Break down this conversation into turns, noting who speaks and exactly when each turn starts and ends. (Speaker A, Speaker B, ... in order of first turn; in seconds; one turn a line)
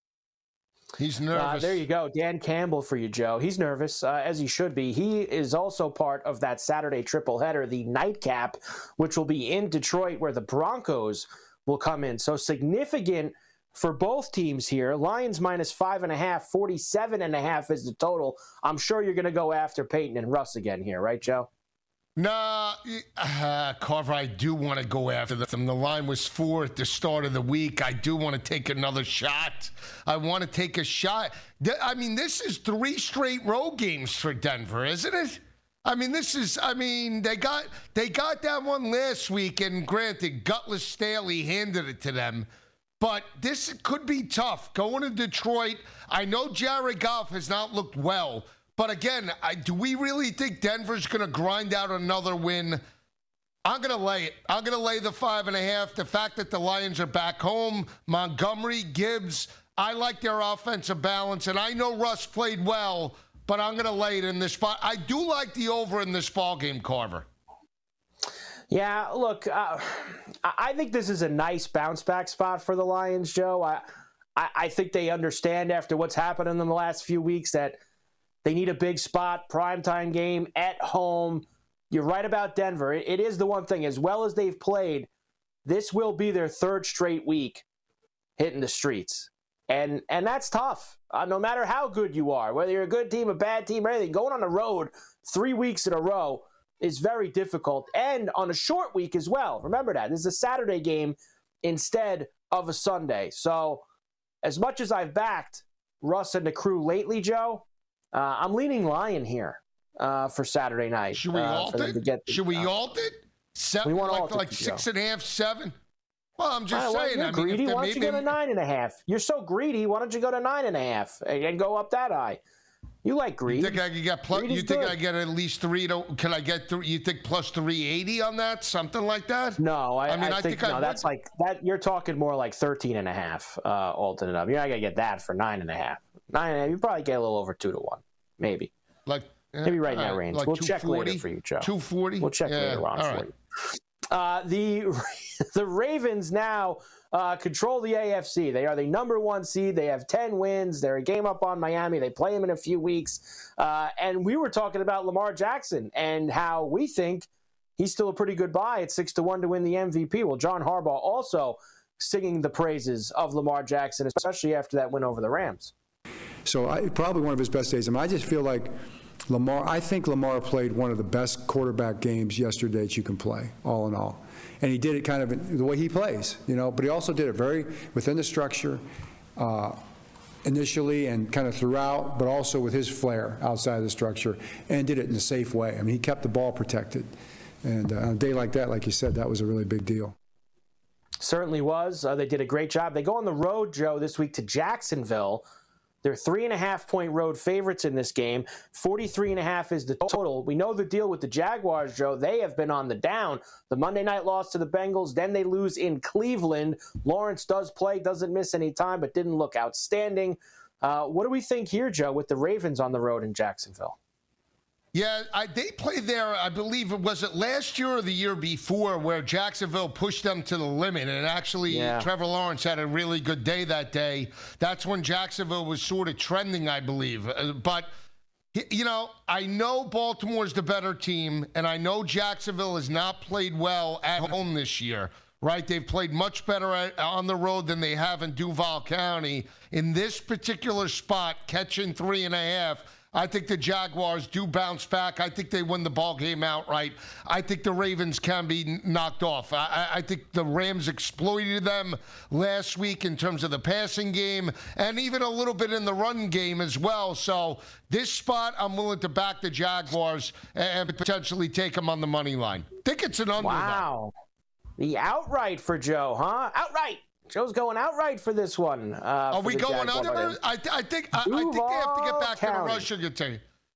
Speaker A: 1.0-1.8
Speaker B: 1.3-21.5
Speaker A: 22.2-42.5
Speaker A: 43.0-52.8
Speaker A: 53.6-67.2
Speaker B: 68.7-77.8
Speaker B: 78.4-85.1
Speaker B: 85.7-87.6
Speaker B: 88.4-103.8
Speaker B: 104.4-112.7
Speaker A: 111.1-115.7
Speaker B: 113.8-114.8
Speaker A: 116.4-118.3
Speaker B: 116.7-122.4
Speaker B: 123.0-125.0
Speaker A: 123.5-131.0
Speaker B: 129.6-138.7
Speaker A: 139.1-143.3
Speaker B: 139.6-143.3
Speaker B: 144.1-165.7
Speaker C: 166.4-168.7
Speaker C: 169.3-178.8
Speaker C: 179.3-179.8
Speaker C: 180.4-187.1
Speaker C: 187.6-190.1
Speaker B: 191.2-195.4
Speaker B: 196.0-213.9
Speaker A: 214.9-227.9
Speaker B: 221.7-222.1
Speaker A: 228.5-263.9
Speaker B: 263.4-264.1
Speaker B: 264.8-270.4
Speaker A: 269.3-273.4
Speaker B: 271.2-272.9